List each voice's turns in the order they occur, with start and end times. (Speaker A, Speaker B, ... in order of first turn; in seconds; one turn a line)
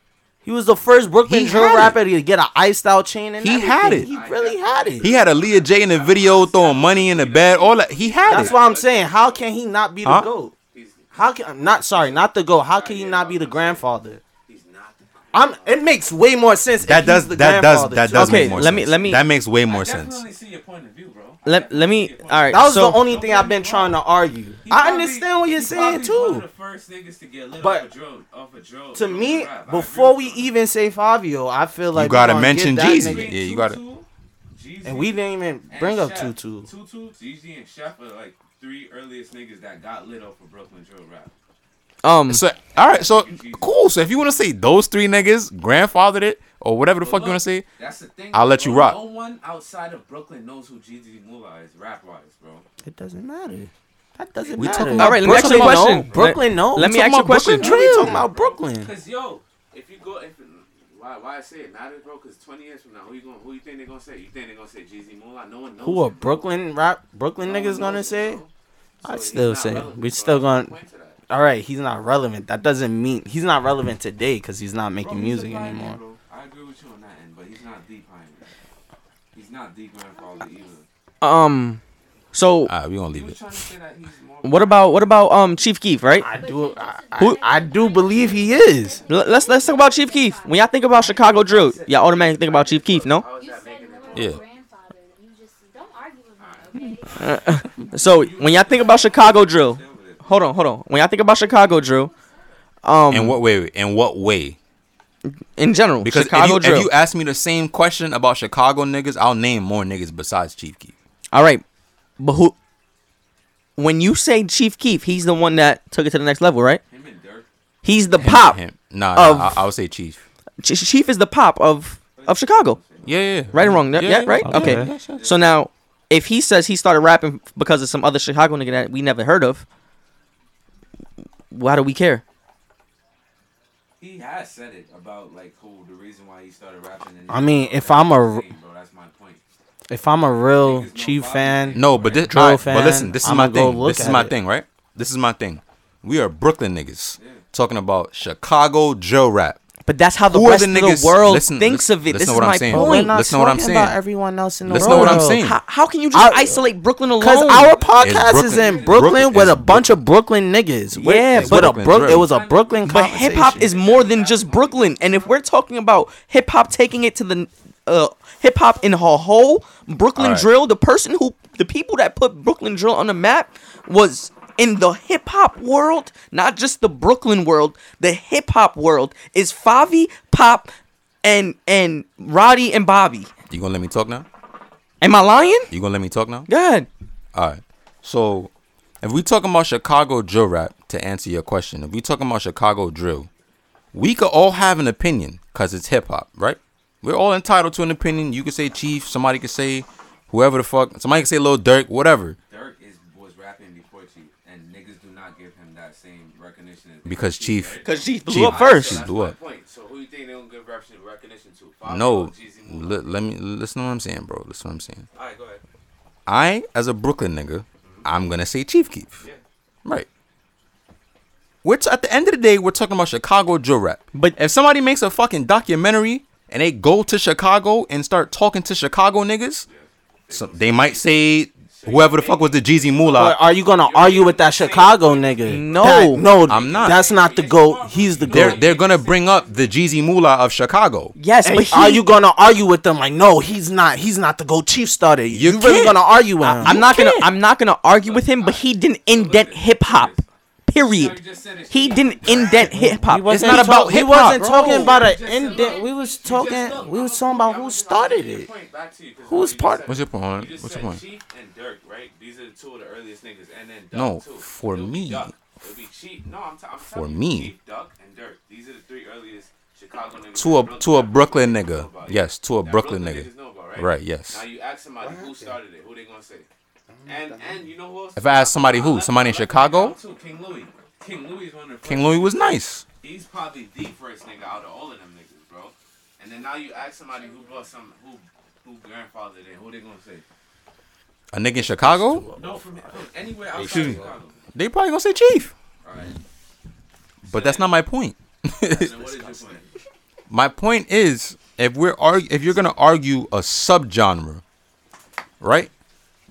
Speaker A: 0.4-5.1
Speaker B: 1.2-2.0
Speaker B: 3.4-4.1
Speaker C: 3.9-9.4
Speaker B: 5.0-8.5
Speaker A: 8.3-10.5
Speaker B: 10.0-10.3
Speaker C: 10.6-11.1
Speaker A: 11.1-14.2
Speaker C: 11.7-15.8
Speaker A: 15.3-18.7
Speaker B: 16.8-20.2
Speaker D: 18.1-19.2
Speaker C: 19.7-24.0
Speaker D: 21.4-23.0
Speaker A: 22.5-26.4
Speaker C: 24.6-30.6
Speaker A: 27.6-27.9
Speaker A: 28.9-33.4
Speaker B: 31.9-33.8
Speaker C: 32.8-41.3
Speaker A: 34.8-36.7
Speaker D: 42.0-42.4
Speaker B: 42.3-47.7
Speaker C: 42.7-43.7
Speaker C: 47.0-52.6
Speaker B: 48.3-49.0
Speaker A: 52.8-57.0
Speaker C: 54.4-55.4
Speaker B: 54.6-56.2
Speaker D: 55.0-57.7
Speaker B: 56.8-58.2
Speaker A: 57.5-58.9
Speaker C: 57.7-66.5
Speaker A: 65.8-68.4
Speaker C: 67.4-68.5
Speaker C: 69.0-71.2
Speaker A: 69.0-70.7
Speaker A: 71.3-76.0
Speaker C: 75.0-78.5
Speaker C: 79.3-80.8
Speaker E: 80.0-80.8
Speaker D: 81.2-81.8
Speaker D: 82.3-82.7
Speaker B: 82.7-83.4
Speaker C: 83.1-85.1
Speaker D: 84.4-86.3
Speaker A: 86.2-89.0
Speaker E: 86.2-91.2
Speaker D: 87.2-87.5
Speaker C: 88.9-89.9
Speaker D: 89.0-93.2
Speaker C: 90.9-94.4
Speaker E: 93.3-97.5
Speaker B: 94.1-94.4
Speaker C: 96.4-97.5
Speaker D: 97.2-102.1
Speaker C: 98.0-100.4
Speaker E: 101.8-102.5
Speaker D: 102.8-103.4
Speaker B: 103.1-104.6
Speaker D: 105.2-106.9
Speaker B: 106.0-110.9
Speaker D: 111.3-111.6
Speaker D: 112.2-112.5
Speaker D: 113.8-116.8
Speaker C: 116.9-117.5
Speaker D: 117.8-118.6
Speaker B: 118.2-120.2
Speaker D: 119.1-119.6
Speaker D: 120.6-122.8
Speaker C: 122.2-123.5
Speaker B: 123.0-125.2
Speaker D: 123.5-129.7
Speaker A: 124.4-124.9
Speaker C: 124.9-125.5
Speaker D: 131.5-132.2
Speaker C: 134.0-139.4
Speaker A: 137.3-138.5
Speaker A: 139.9-144.3
Speaker C: 140.5-142.2
Speaker B: 141.7-149.6
Speaker C: 147.2-147.4
Speaker D: 149.8-153.1
Speaker B: 150.3-154.0
Speaker A: 152.7-155.4
Speaker B: 154.6-155.6
Speaker D: 154.7-157.9
Speaker A: 156.1-156.6
Speaker A: 157.2-163.7
Speaker C: 157.6-159.4
Speaker B: 158.0-160.0
Speaker D: 160.9-161.9
Speaker B: 161.3-162.3
Speaker C: 162.0-165.4
Speaker D: 162.8-180.7
Speaker B: 170.2-170.5
Speaker D: 181.2-183.3
Speaker B: 183.5-184.2
Speaker D: 185.0-185.7
Speaker B: 185.7-186.5
Speaker D: 186.5-186.9
Speaker B: 187.3-188.5
Speaker B: 189.0-193.3
Speaker B: 193.9-202.4
Speaker C: 202.5-213.2
Speaker B: 207.1-209.3
Speaker D: 207.8-209.1
Speaker B: 211.8-215.1
Speaker C: 215.1-215.6
Speaker B: 216.3-219.2
Speaker B: 221.6-229.7
Speaker C: 229.7-239.8
Speaker B: 230.3-233.3
Speaker A: 233.1-238.6
Speaker D: 235.4-236.3
Speaker B: 236.5-237.0
Speaker B: 238.3-241.1
Speaker D: 241.2-242.1
Speaker A: 241.4-246.8
Speaker B: 245.3-247.3
Speaker D: 246.5-250.1
Speaker C: 247.9-252.7
Speaker D: 250.7-251.2
Speaker D: 251.7-254.8
Speaker A: 252.7-258.5
Speaker B: 253.3-254.6
Speaker C: 254.4-276.5
Speaker E: 254.8-256.9
Speaker A: 259.2-259.9
Speaker B: 259.9-261.0
Speaker B: 263.9-265.3
Speaker B: 266.8-267.5
Speaker B: 270.3-274.4
Speaker A: 275.0-275.5
Speaker A: 276.9-277.7
Speaker C: 277.0-282.4
Speaker B: 278.1-280.0
Speaker B: 281.8-282.8
Speaker C: 282.9-290.2
Speaker E: 287.1-287.6
Speaker B: 291.3-292.3
Speaker A: 291.5-294.1
Speaker C: 292.3-294.4
Speaker B: 293.6-294.0
Speaker B: 294.5-295.5
Speaker C: 295.8-296.2
Speaker C: 297.2-297.7
Speaker B: 297.3-299.0
Speaker C: 298.6-299.8
Speaker B: 300.3-304.4
Speaker B: 305.4-305.7